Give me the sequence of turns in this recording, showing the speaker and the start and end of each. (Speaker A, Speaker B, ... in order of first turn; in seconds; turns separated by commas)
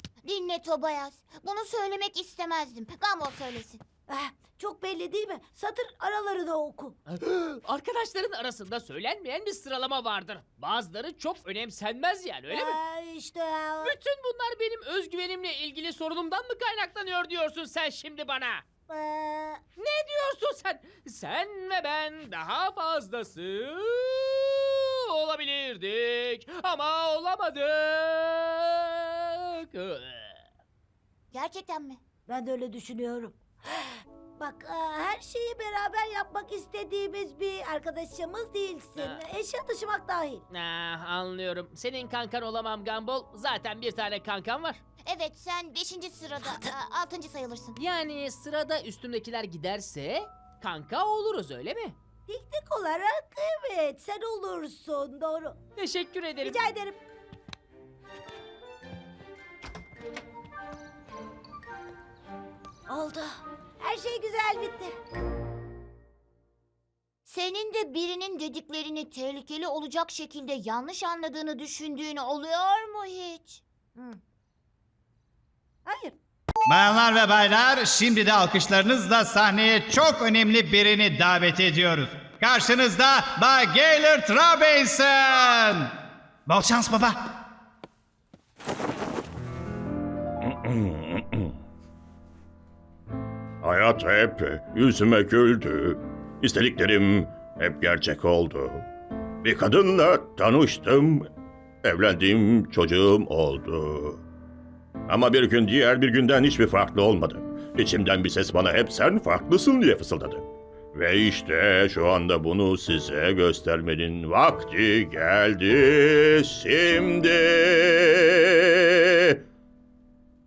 Speaker A: 0.2-3.8, Speaker B: 4.1-7.0, Speaker C: 7.1-12.8, Speaker B: 12.5-14.0, Speaker C: 13.8-18.6, Speaker B: 18.9-19.6, Speaker C: 19.8-30.4, Speaker A: 31.3-32.0, Speaker B: 32.3-40.4, Speaker C: 40.5-44.8, Speaker A: 45.0-47.7, Speaker C: 47.8-52.0, Speaker B: 52.3-55.6, Speaker C: 55.8-56.6, Speaker B: 56.4-57.0, Speaker B: 62.9-65.0, Speaker A: 67.3-74.2, Speaker B: 75.9-76.2, Speaker D: 76.7-85.9, Speaker D: 86.5-87.2, Speaker E: 90.4-91.5, Speaker E: 93.6-98.9, Speaker E: 99.4-101.3, Speaker E: 101.8-104.2, Speaker E: 105.1-110.4, Speaker E: 110.9-119.4